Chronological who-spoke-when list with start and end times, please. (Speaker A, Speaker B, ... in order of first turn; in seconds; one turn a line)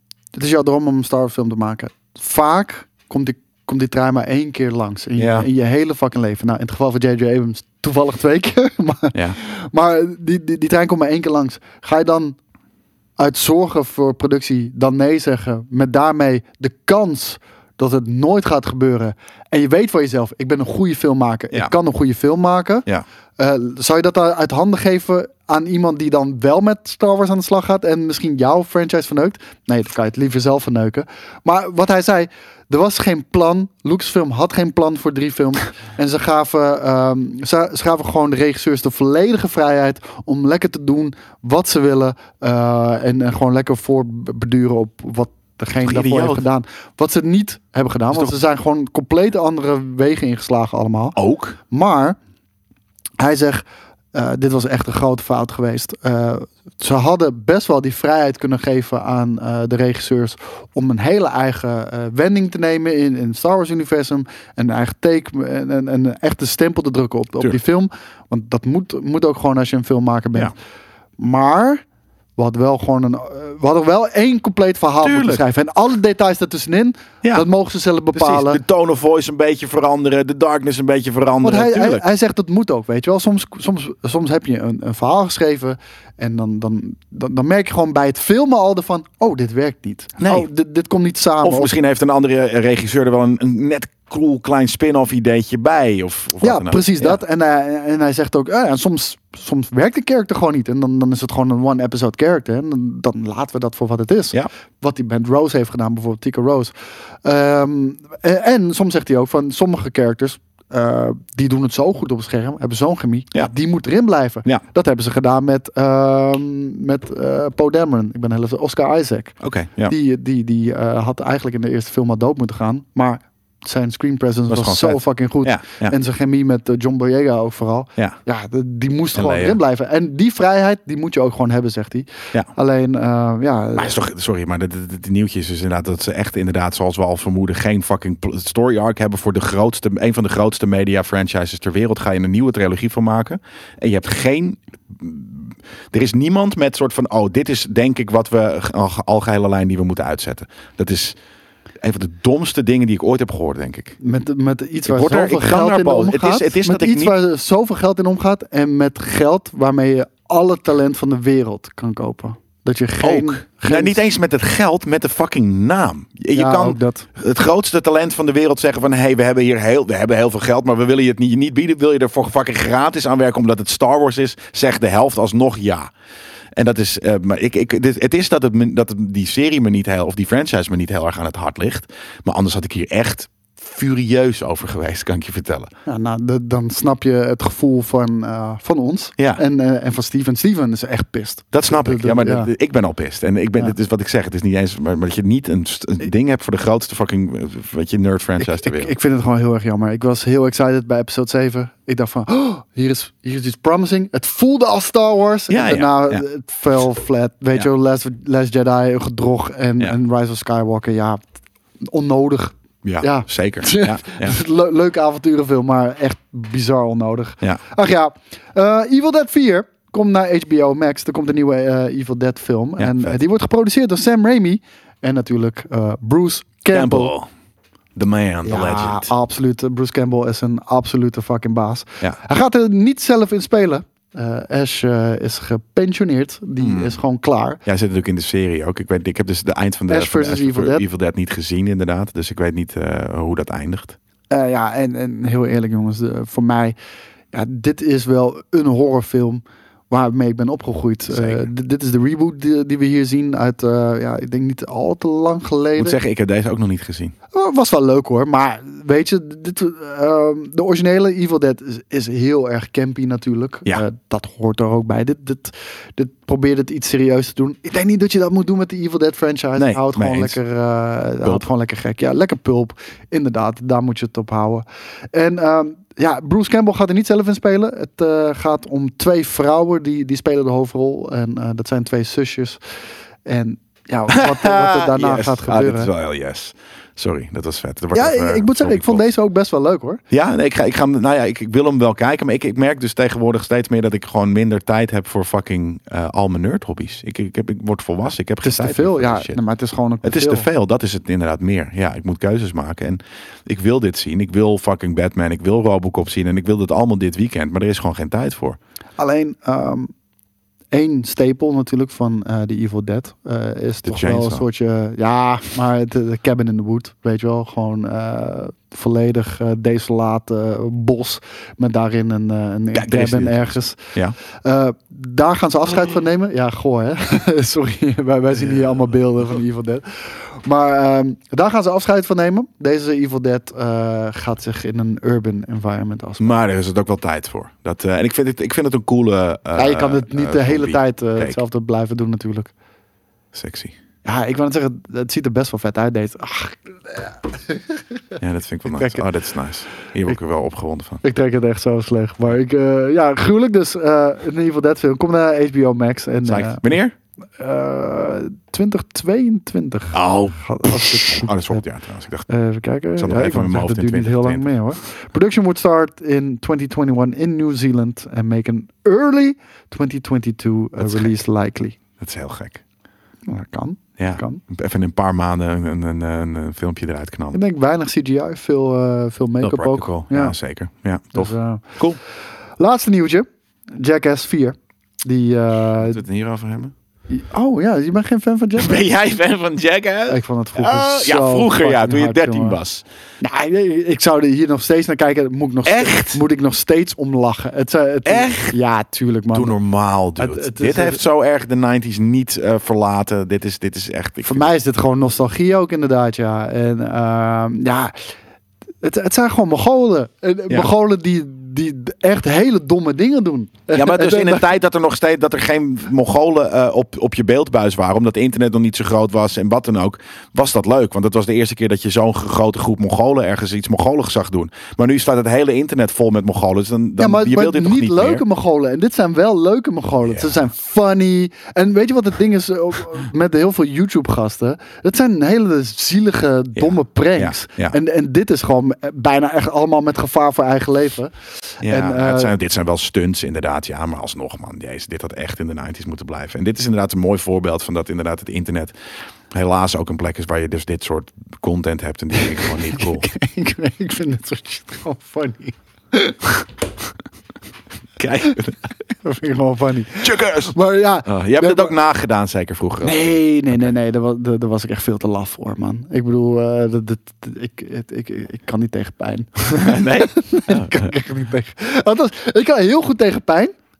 Speaker A: 0.3-12.4
Speaker B: 5.2-5.5
Speaker A: 13.2-51.2
Speaker B: 45.8-46.5
Speaker B: 48.1-48.4
Speaker B: 51.2-51.6
Speaker A: 51.7-52.2
Speaker A: 53.2-53.6
Speaker A: 54.1-70.5
Speaker A: 71.2-71.8
Speaker A: 72.4-78.6
Speaker B: 75.0-75.4
Speaker B: 78.2-82.0
Speaker A: 81.4-91.7
Speaker B: 90.2-90.5
Speaker B: 91.4-97.2
Speaker A: 96.4-106.7
Speaker A: 107.2-134.0
Speaker B: 119.4-119.9
Speaker B: 124.5-126.0
Speaker B: 129.1-129.6
Speaker B: 133.8-151.2
Speaker B: 151.8-154.0
Speaker A: 154.0-164.0
Speaker B: 154.8-157.2
Speaker B: 163.0-175.9
Speaker A: 166.3-167.1
Speaker B: 176.6-185.7
Speaker A: 185.9-192.5
Speaker B: 191.5-198.9
Speaker A: 198.4-211.2
Speaker B: 205.5-206.2
Speaker A: 211.9-227.1
Speaker B: 212.8-214.4
Speaker B: 222.8-223.2
Speaker B: 226.7-227.3
Speaker B: 228.0-229.1
Speaker A: 228.4-237.6
Speaker B: 236.6-237.0
Speaker B: 237.7-244.0
Speaker A: 239.9-240.8
Speaker A: 244.3-246.8
Speaker A: 247.3-256.0
Speaker B: 251.1-251.5
Speaker B: 255.8-257.1
Speaker A: 257.3-282.6
Speaker B: 269.6-270.4
Speaker A: 283.3-285.9
Speaker B: 284.1-289.0
Speaker A: 287.9-290.0
Speaker B: 290.1-299.4
Speaker A: 298.4-300.5
Speaker B: 300.0-308.6
Speaker A: 309.0-309.9
Speaker A: 310.7-336.3
Speaker B: 313.9-314.4
Speaker B: 322.7-324.2
Speaker B: 328.4-328.7
Speaker B: 336.2-341.4
Speaker A: 339.6-342.5
Speaker B: 343.3-343.8
Speaker A: 344.1-347.8
Speaker B: 348.2-351.0
Speaker A: 348.7-349.0
Speaker A: 351.0-356.7
Speaker B: 356.3-356.9
Speaker A: 357.4-361.6
Speaker B: 359.9-362.3
Speaker A: 362.3-371.8
Speaker B: 363.0-364.5
Speaker B: 370.8-371.1
Speaker B: 372.0-372.6
Speaker A: 373.3-374.4
Speaker B: 374.0-377.4
Speaker A: 377.3-380.4
Speaker B: 379.4-382.0
Speaker A: 381.1-381.8
Speaker A: 382.6-386.0
Speaker B: 385.8-386.7
Speaker A: 387.1-388.9
Speaker B: 388.6-392.8
Speaker A: 390.1-392.6
Speaker A: 393.2-399.6
Speaker B: 395.7-396.2
Speaker B: 398.1-398.6
Speaker B: 399.3-404.5
Speaker A: 400.2-401.0
Speaker A: 404.2-407.9
Speaker A: 408.8-414.5
Speaker B: 413.7-428.2
Speaker A: 427.0-442.3
Speaker B: 430.1-430.4
Speaker B: 436.6-437.8
Speaker B: 441.6-448.7
Speaker B: 449.3-453.1
Speaker A: 452.8-456.4
Speaker B: 458.0-458.6
Speaker A: 459.0-461.8
Speaker B: 460.0-463.1
Speaker A: 462.8-473.5
Speaker B: 469.5-470.9